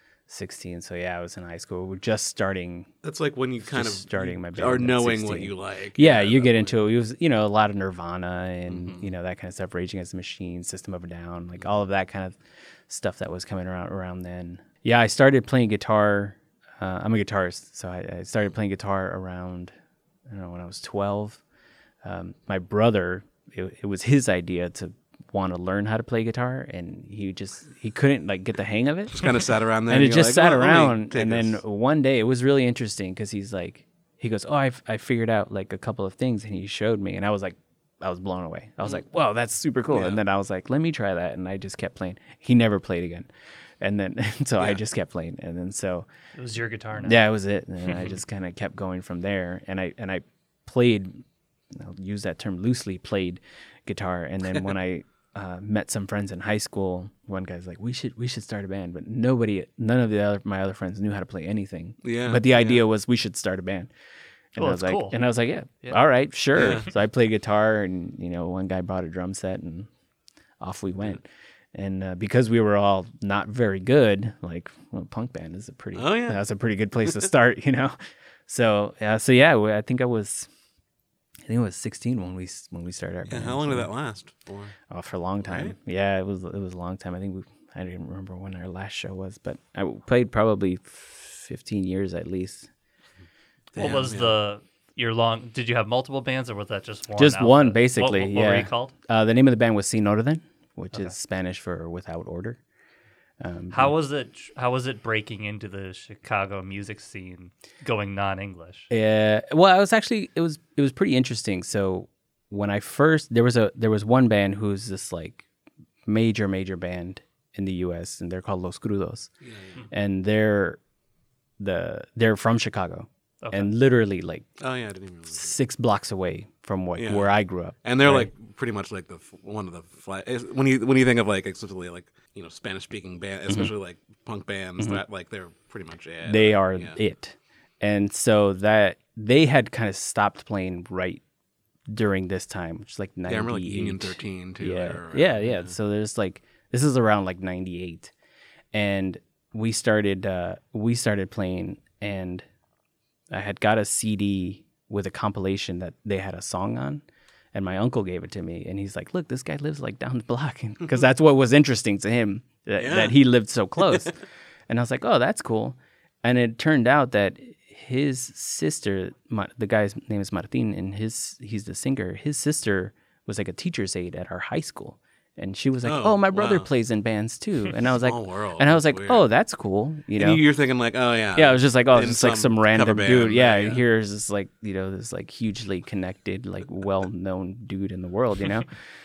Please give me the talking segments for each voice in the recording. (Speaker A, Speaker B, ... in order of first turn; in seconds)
Speaker A: 0.3-2.9, 3.6-19.7, 20.3-21.4, 22.0-29.1, 29.9-43.3, 43.8-46.1, 47.0-63.9, 64.5-69.9, 70.6-80.5, 81.5-83.9, 84.9-92.7, 97.2-102.6, 103.4-103.9, 108.9-115.4, 116.1-119.3, 119.9-120.8, 121.6-124.5, 125.3-128.3, 136.2-141.2, 141.9-148.1, 148.7-152.4, 153.3-164.2, 164.7-180.4, 181.3-188.8
Speaker B: 3.0-6.7, 8.7-9.1, 29.1-31.6, 39.9-40.2, 62.0-62.8, 66.5-66.8, 75.9-76.4, 83.2-84.7, 85.4-85.8, 93.7-94.3, 119.4-119.7, 124.6-125.5, 127.0-127.3, 127.8-137.0, 143.3-145.7, 162.8-163.2, 163.8-164.1, 175.8-176.7, 177.8-179.2, 180.2-183.8
Speaker C: 46.3-47.2, 64.6-65.2, 93.8-98.9, 103.7-108.9, 123.4-123.7